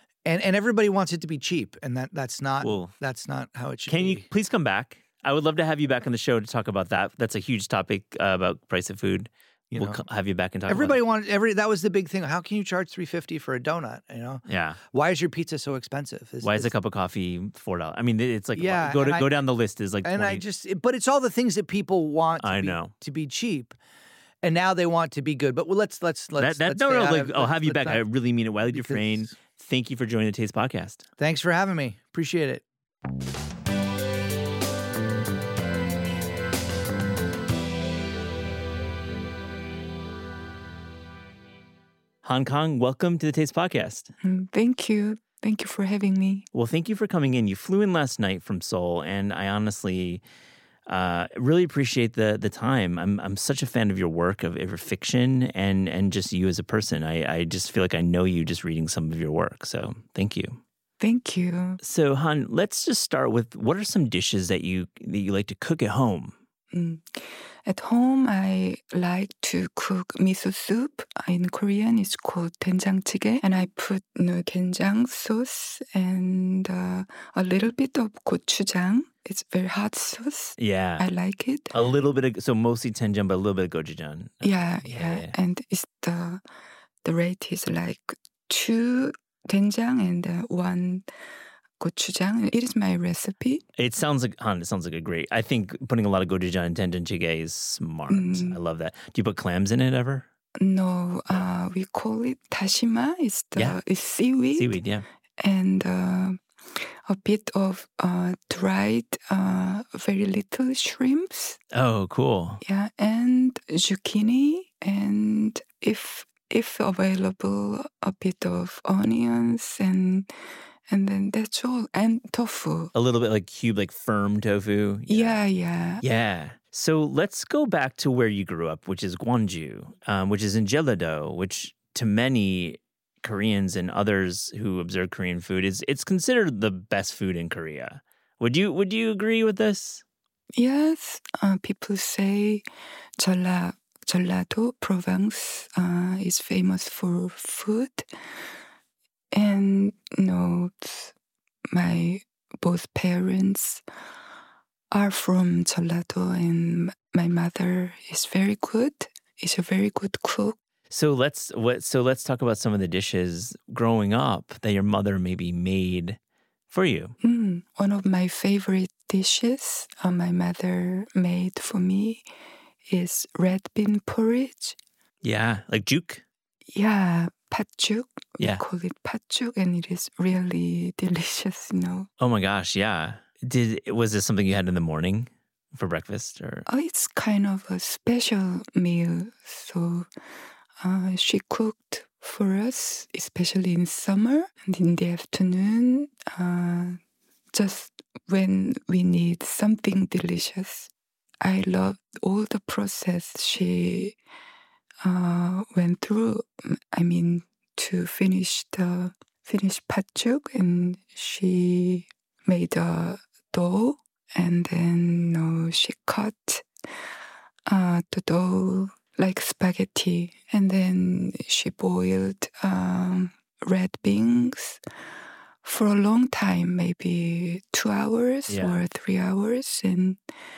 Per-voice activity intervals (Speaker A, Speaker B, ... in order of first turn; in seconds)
Speaker A: 0.3-4.3, 9.7-10.0, 10.7-16.7, 18.6-19.4, 20.0-23.8, 24.4-28.0, 28.7-29.3, 31.2-32.6
Speaker B: 2.6-2.9, 3.9-11.0, 14.5-14.8, 16.4-20.4, 22.4-22.9, 26.4-31.1, 42.2-44.1, 46.5-50.2, 50.9-60.6, 61.8-66.3, 80.6-81.1, 81.7-85.3, 93.8-100.3, 104.5-105.0, 111.7-112.6, 122.9-125.4, 126.0-140.0, 160.9-166.2, 166.7-167.2, 175.2-176.2, 182.2-186.7, 228.5-228.8
Speaker C: 44.2-46.5, 61.0-61.8, 66.7-81.8, 84.4-86.4, 87.0-91.1, 91.8-93.6, 98.1-98.6, 100.6-104.8, 105.4-111.6, 112.6-120.3, 120.9-122.9, 125.1-126.0, 140.5-142.6, 143.2-148.1, 149.3-151.1, 151.7-153.8, 154.9-160.6, 167.2-172.2, 172.9-174.8, 176.7-182.1, 186.7-190.1, 190.8-197.0, 197.5-200.9, 201.4-204.2, 205.0-216.7, 217.7-224.8, 225.6-230.2